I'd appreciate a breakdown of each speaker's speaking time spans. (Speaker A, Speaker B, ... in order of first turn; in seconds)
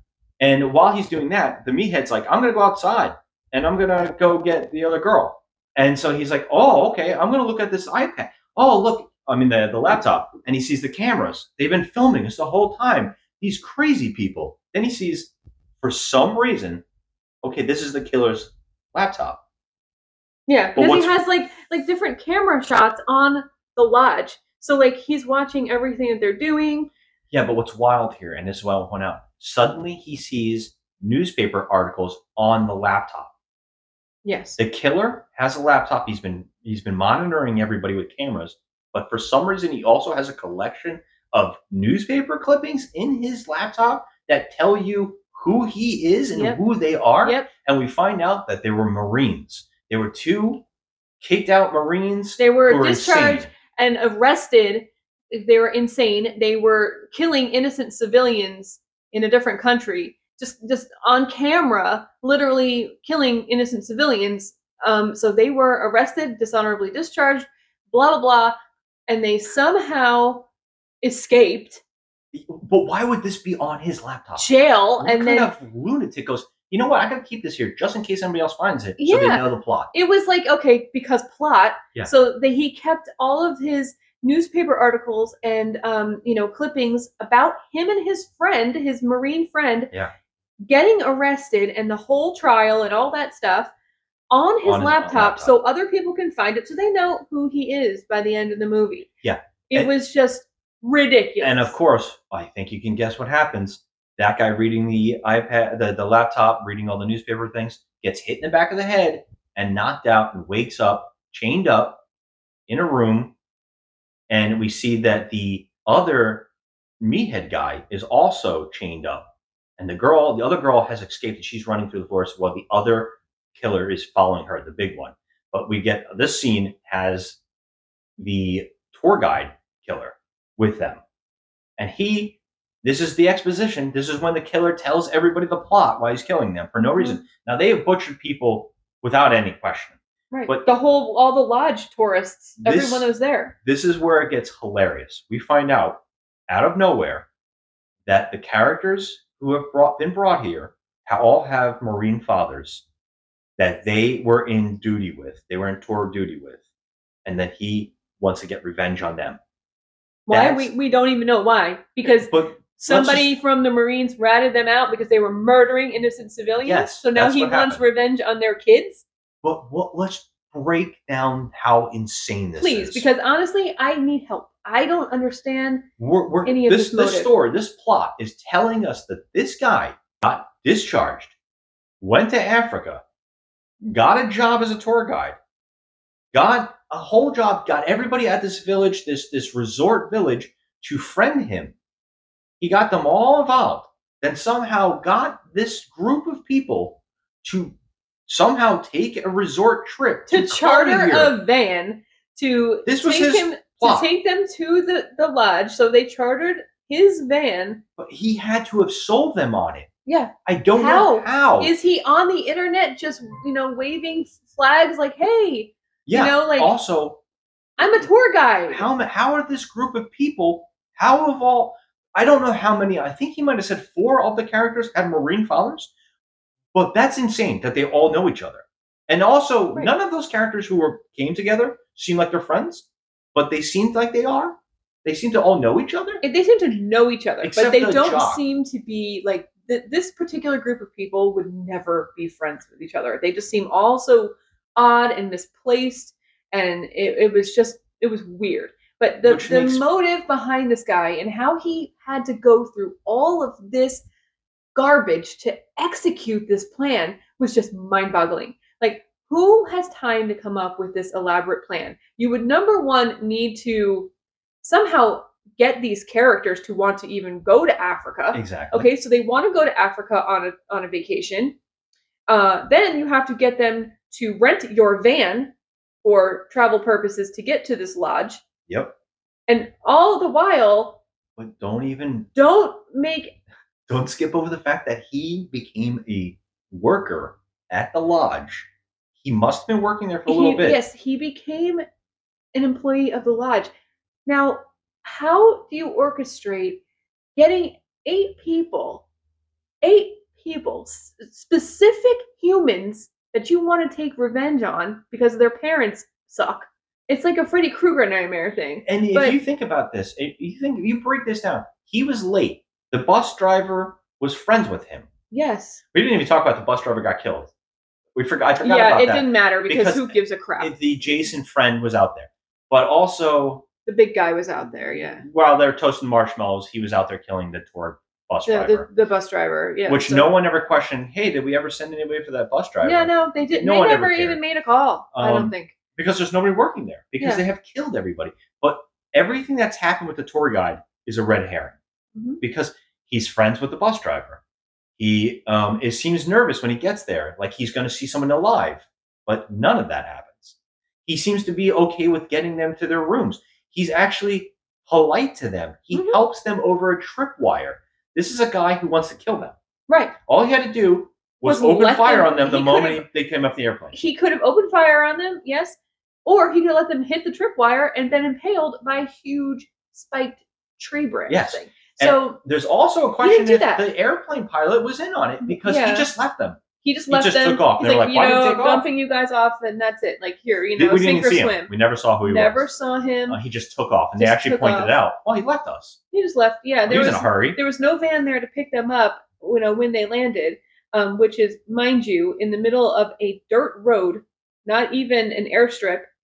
Speaker A: 0.4-16.8, 17.4-19.4, 20.7-21.1, 27.3-33.3, 34.6-50.6, 51.2-53.5, 72.3-74.5, 75.0-79.9, 94.6-95.5, 99.2-99.9, 101.4-112.0, 112.7-113.3, 114.3-116.5, 117.0-119.2, 119.8-127.4, 128.2-131.0, 131.8-140.7, 142.6-143.1, 143.6-147.3, 148.1-152.8, 153.6-156.6, 157.2-159.4, 160.3-160.7, 162.2-163.4, 166.6-167.8, 169.4-173.1, 176.0-181.3, 182.0-183.0, 183.8-185.4, 186.3-191.7, 192.6-197.7, 198.3-201.3, 202.8-204.1, 208.0-209.9, 210.4-211.7, 216.1-217.2, 217.8-218.1, 218.7-225.9, 226.7-236.2, 237.4-238.4, 249.2-249.8, 268.3-268.9, 278.7-278.9, 281.4-282.3, 283.9-288.7, 289.2-290.8, 308.8-315.1, 315.9-317.5, 318.1-323.6, 325.2-328.9, 329.9-334.4, 335.1-341.8, 342.4-344.4, 345.0-359.5, 360.3-363.9, 371.3-378.8, 380.8-382.7, 383.3-386.0, 386.9-387.6
Speaker B: 20.5-26.9, 34.2-34.6, 46.3-46.6, 47.2-47.5, 52.4-68.5, 69.1-70.5, 71.0-71.8, 74.4-75.5, 79.0-89.9, 90.7-93.7, 94.3-99.1, 99.7-101.7, 140.3-143.5, 160.3-169.0, 172.6-175.9, 176.4-177.3, 200.3-207.8, 210.1-216.7, 217.8-218.9, 236.2-254.0, 254.7-264.1, 264.6-271.6, 272.3-278.4, 279.5-281.0, 282.3-283.4, 290.3-291.8, 292.5-293.7, 294.2-296.8, 297.4-299.0, 299.8-309.4, 315.3-315.8, 318.6-320.7, 323.9-325.2, 328.4-330.3, 332.8-335.7, 342.1-342.4, 355.9-356.2, 359.9-360.1, 361.4-363.0, 363.9-372.4, 373.2-373.8, 375.4-376.1, 376.8-383.4, 384.2-384.9, 386.1-396.1